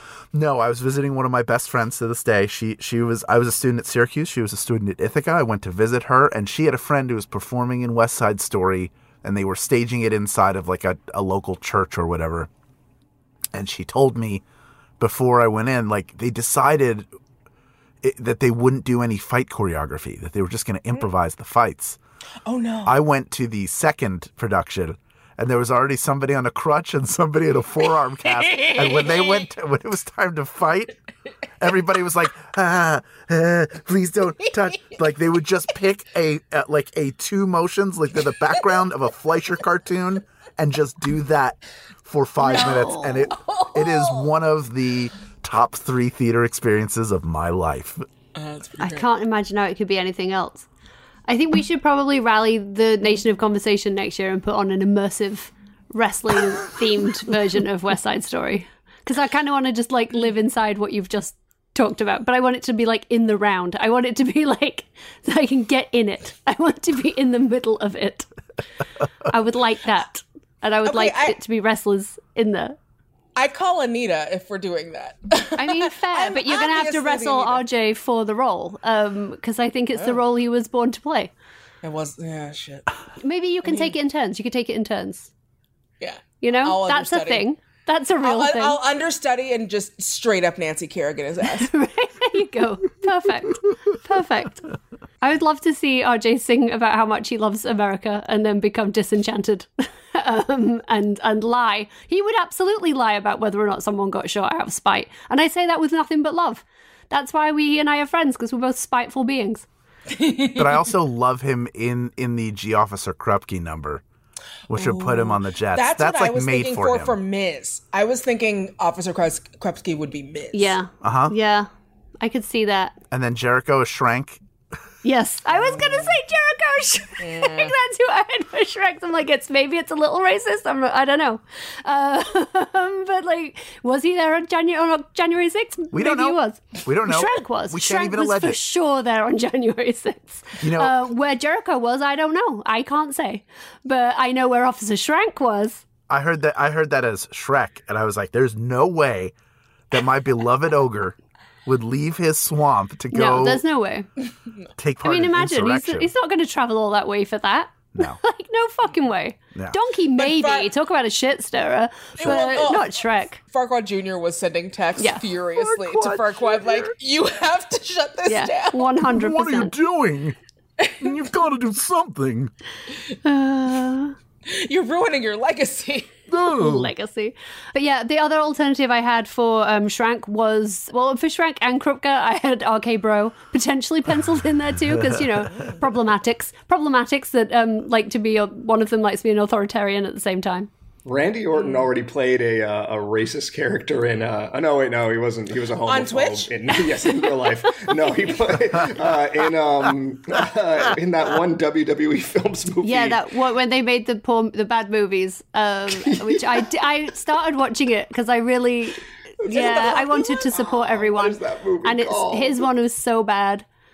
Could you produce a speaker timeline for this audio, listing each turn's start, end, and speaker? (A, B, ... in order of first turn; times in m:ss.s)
0:00.3-0:12.5 A
0:13.5-0:14.4 A
0:15.0-0:17.1 A
0:18.0-0:22.0 A
0:22.4-0:23.0 B
0:22.8-0:30.9 A
0:28.5-0:29.4 B
0:31.6-0:48.0 A
0:42.4-0:44.3 B
0:48.4-0:49.1 B
0:48.8-0:50.6 C
0:51.3-1:08.3 C
1:09.3-1:12.8 C
1:10.8-1:11.4 B
1:13.4-1:17.6 B
1:15.6-1:21.3 C
1:21.8-1:22.8 B
1:23.2-1:25.3 C
1:23.6-1:23.9 B
1:26.0-1:27.5 B
1:26.4-1:28.8 C
1:28.2-1:31.7 B
1:31.5-1:34.7 C
1:35.2-1:49.6 C
1:50.1-1:50.8 B
1:50.6-1:54.0 A
1:54.7-1:57.2 A
1:54.7-2:00.8 B
2:00.5-2:01.7 C
2:01.0-2:01.3 A
2:02.2-2:03.0 C
2:03.1-2:04.4 A
2:05.0-2:25.8 C
2:05.6-2:06.1 B
2:07.2-2:07.7 B
2:15.9-2:18.6 A
2:20.6-2:21.0 A
2:26.1-2:29.3 A
2:29.9-2:33.6 A
2:33.1-2:34.1 C
2:34.8-2:36.1 A
2:35.0-2:43.4 C
2:37.9-2:38.2 A
2:40.2-2:40.7 B
2:42.2-2:48.9 B
2:45.5-2:47.0 A
2:48.3-2:49.7 C
2:49.1-2:50.4 A
2:51.0-2:52.5 A
2:53.2-2:54.2 C
2:54.5-2:56.2 B
2:56.3-2:56.9 A
2:56.6-3:10.7 C
3:04.9-3:05.2 A
3:11.0-3:23.2 D
3:11.5-3:11.9 B
3:15.8-3:16.8 B
3:22.8-3:33.6 C
3:26.0-3:26.6 D
3:29.4-3:32.6 D